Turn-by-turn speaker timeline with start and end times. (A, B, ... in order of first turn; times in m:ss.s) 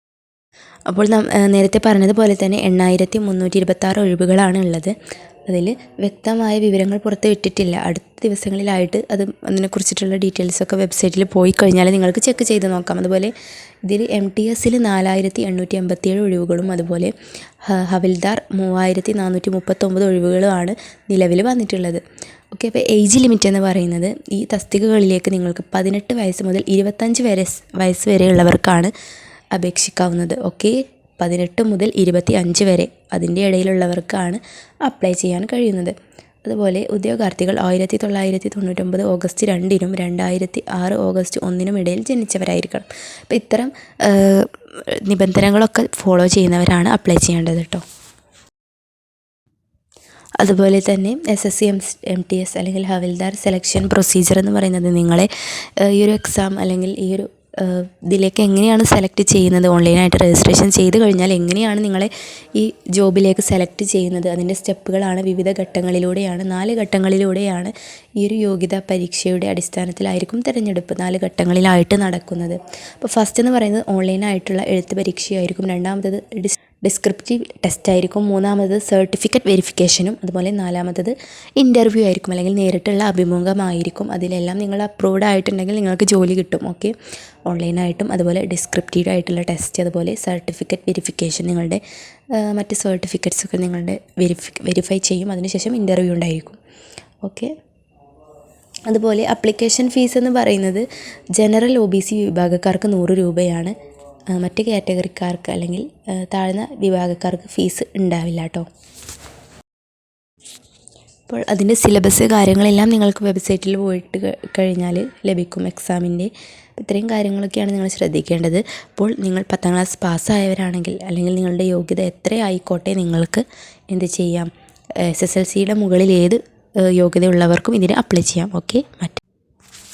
0:00.9-0:13.3 A
0:13.8-0:17.1 A
0:17.6-0:28.9 A
0:29.5-0:47.8 A
0:50.4-1:26.9 A
1:27.5-1:31.8 A
1:32.3-1:36.6 A
1:37.2-1:37.5 A
1:38.9-1:43.8 A
1:44.3-1:48.7 A
1:51.3-2:04.5 A
2:05.0-2:09.2 A